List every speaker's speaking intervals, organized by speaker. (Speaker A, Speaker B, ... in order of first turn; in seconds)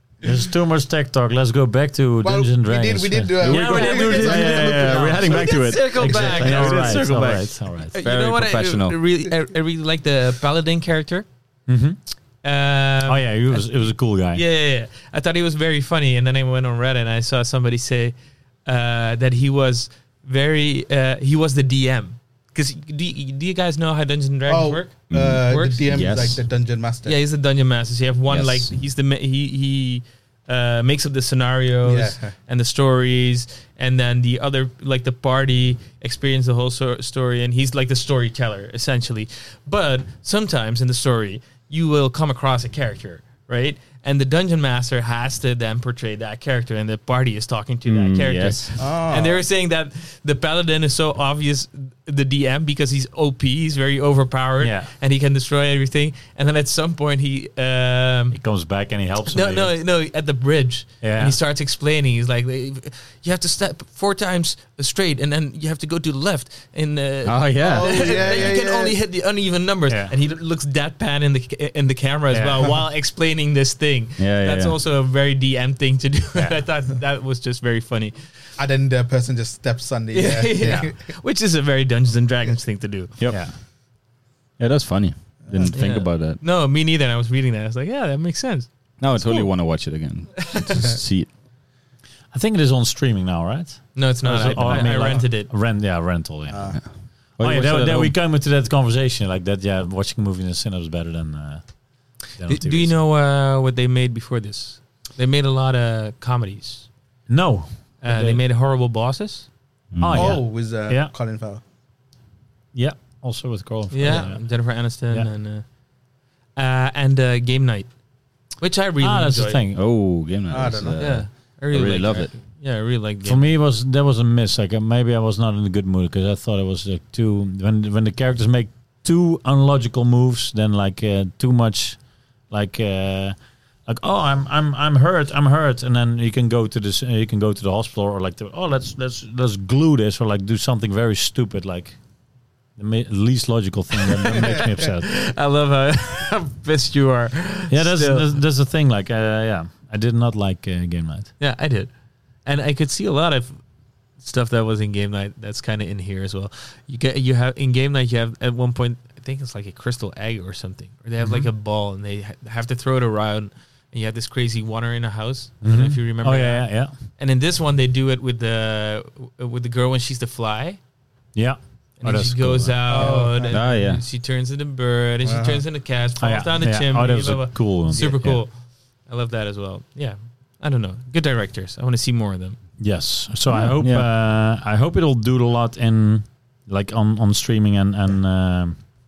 Speaker A: 0.2-7.9, 11.7-12.0, 13.0-14.4, 54.6-54.9, 58.3-59.7, 61.0-61.4, 69.9-70.1, 72.3-72.7, 83.3-83.5, 92.3-102.9, 107.3-108.4, 110.0-111.1, 112.7-115.3, 119.0-119.8, 123.2-142.0, 142.7-145.1, 147.7-151.3, 161.2-161.5, 165.6-166.9, 171.3-173.2, 176.2-178.4, 182.8-188.8
Speaker B: 2.2-5.5, 24.5-27.1, 31.8-32.3, 48.8-49.4, 67.6-69.0, 78.6-81.1, 85.5-85.7, 94.7-95.2, 96.5-96.8, 110.1-111.6, 120.5-121.0, 172.9-173.6, 175.2-175.6
Speaker C: 3.4-8.9, 25.1-26.4, 28.3-28.7, 47.9-48.7, 67.2-68.5, 74.2-74.7, 83.2-83.5, 84.6-86.4, 89.0-91.3, 96.7-98.1, 109.9-110.4, 119.7-122.3, 173.5-174.0, 183.5-184.1
Speaker D: 5.2-7.2, 7.9-11.2, 12.4-18.1, 18.6-25.8, 27.0-58.4, 59.3-78.2, 80.1-83.2, 85.7-88.7, 93.9-95.5, 102.4-106.9, 108.0-109.5, 113.9-115.7, 116.5-117.9, 118.6-119.6, 121.0-123.5, 144.2-148.3, 151.4-151.9, 152.4-153.6, 154.2-170.8, 172.0-178.5, 179.1-182.6